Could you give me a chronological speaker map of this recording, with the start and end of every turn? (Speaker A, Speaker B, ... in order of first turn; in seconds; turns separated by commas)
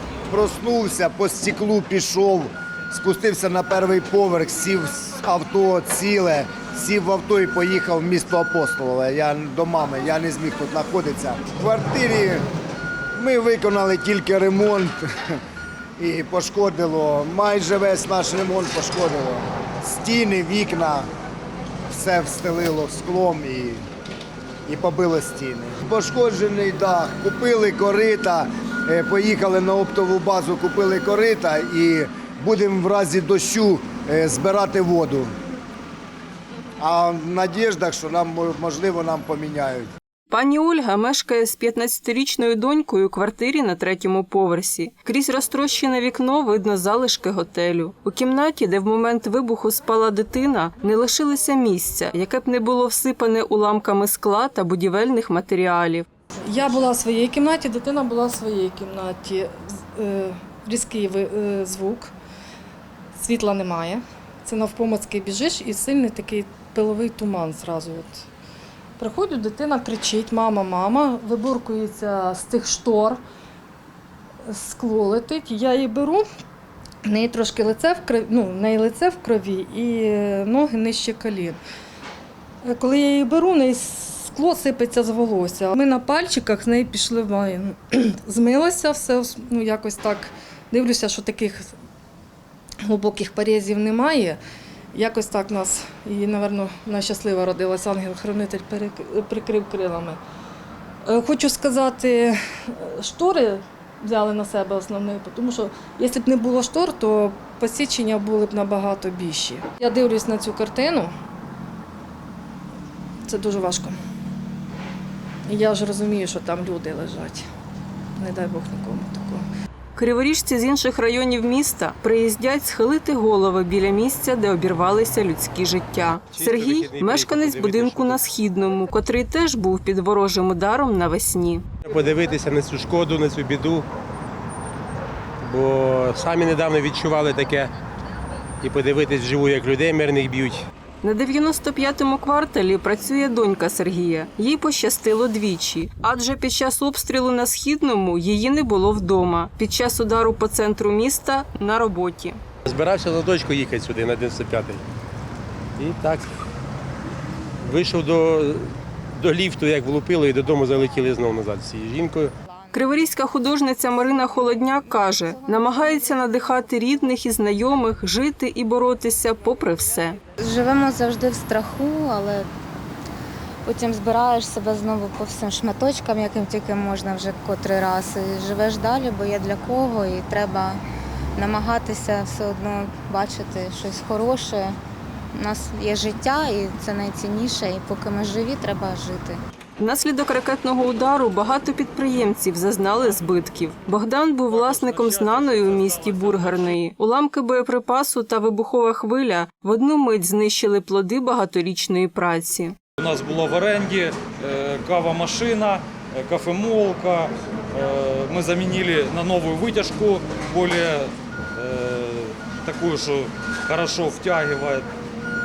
Speaker A: 0.3-12.4, Speaker A: 13.2-15.3, Speaker A: 16.0-21.1, Speaker A: 21.9-23.8, Speaker A: 24.7-35.3, Speaker A: 36.8-39.9, Speaker B: 40.3-56.0, Speaker C: 56.5-62.1, Speaker C: 63.1-68.2, Speaker C: 69.0-73.2, Speaker C: 74.5-76.2, Speaker C: 77.0-81.6, Speaker C: 82.6-91.7, Speaker C: 92.8-94.4, Speaker C: 94.9-100.2, Speaker C: 101.0-111.1, Speaker C: 113.2-114.0, Speaker C: 115.5-117.5, Speaker C: 118.2-119.4, Speaker B: 120.0-131.6, Speaker D: 126.3-128.2, Speaker D: 131.8-133.9, Speaker D: 135.4-137.7, Speaker D: 138.6-140.7, Speaker B: 141.0-152.4, Speaker D: 152.7-154.8, Speaker D: 155.8-156.3, Speaker D: 157.6-162.3, Speaker B: 162.7-170.2, Speaker E: 165.2-165.9, Speaker E: 170.4-172.5, Speaker E: 173.6-180.8, Speaker E: 181.3-184.8, Speaker E: 185.3-189.4, Speaker B: 189.8-202.7, Speaker F: 194.5-196.8, Speaker F: 203.0-214.8